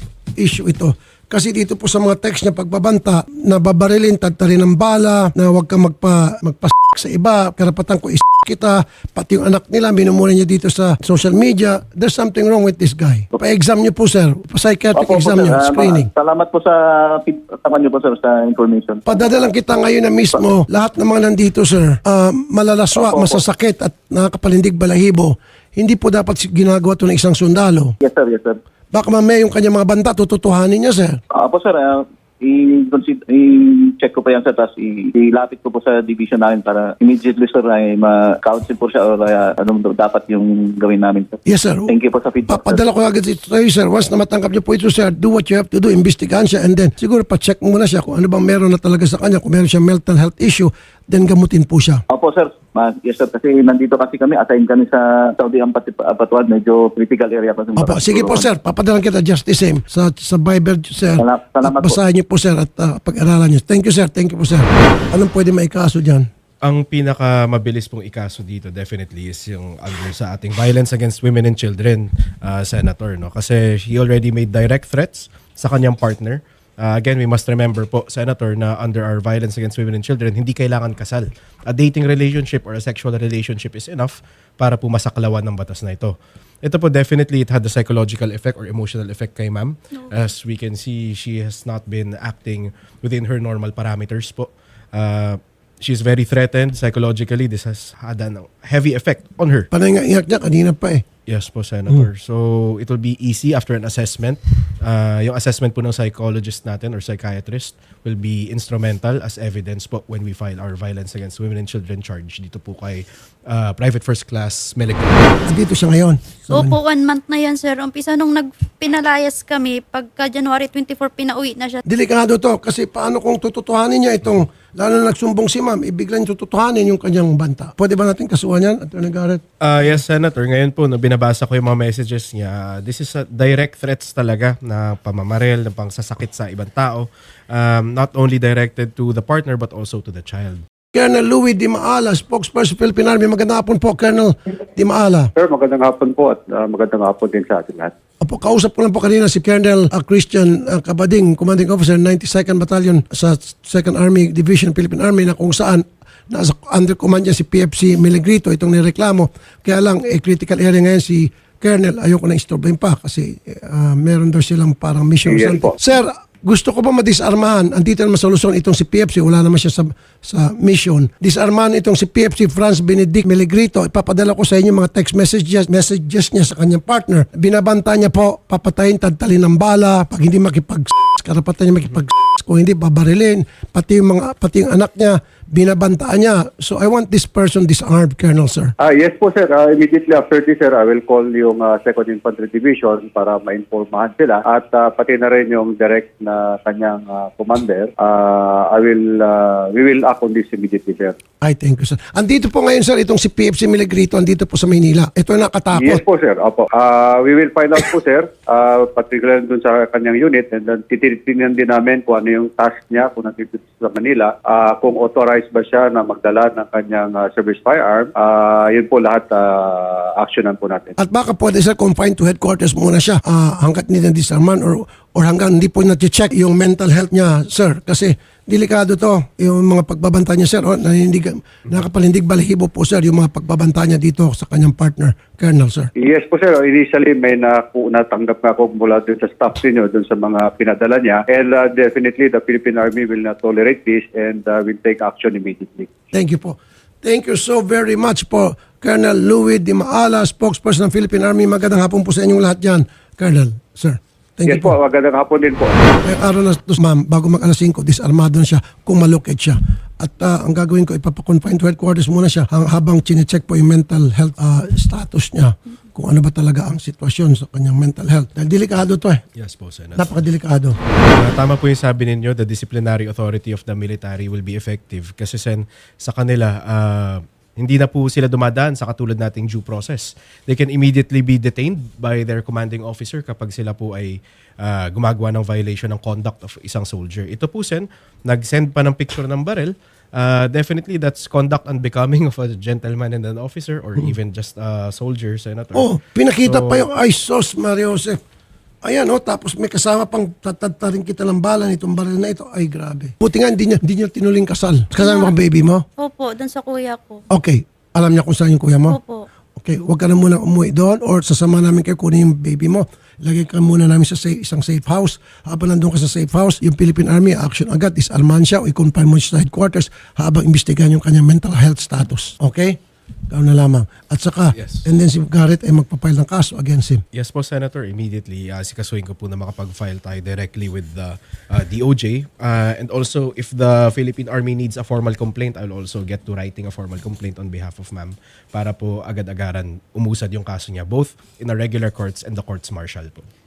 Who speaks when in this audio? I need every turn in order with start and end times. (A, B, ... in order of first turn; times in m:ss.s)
0:00.4-0:16.1 A
0:15.0-0:19.3 B
0:19.0-0:27.9 A
0:22.9-0:23.4 B
0:28.0-0:28.6 B
0:28.9-0:31.2 A
0:31.3-0:42.8 B
0:41.5-0:52.0 A
0:52.1-0:58.4 B
0:57.8-1:06.3 A
1:01.2-1:02.0 B
1:06.6-1:39.7 C
1:39.7-1:41.0 A
1:41.3-1:55.4 C
1:55.4-1:56.8 A
1:56.5-2:01.8 D
2:01.8-2:09.4 A
2:09.6-2:20.6 C
2:20.9-2:25.3 A
2:25.4-2:27.9 E
2:28.2-3:08.7 A
2:45.3-2:45.7 E
3:08.8-3:21.2 E
3:21.4-3:26.0 A
3:25.7-3:40.9 E
3:41.0-3:55.9 A
3:56.0-4:05.9 E
4:06.1-4:14.7 A
4:14.5-4:15.7 E
4:16.0-4:29.2 A
4:29.4-4:30.2 C
4:30.0-4:30.8 A
4:31.1-4:56.8 C
4:55.7-4:58.2 A
4:58.8-5:05.8 A
5:05.0-5:05.3 D
5:06.0-5:07.2 D
5:07.3-5:09.0 A
5:08.9-5:09.2 D
5:09.6-5:22.8 A
5:23.3-5:27.0 A
5:24.5-5:24.9 C
5:27.1-5:43.3 C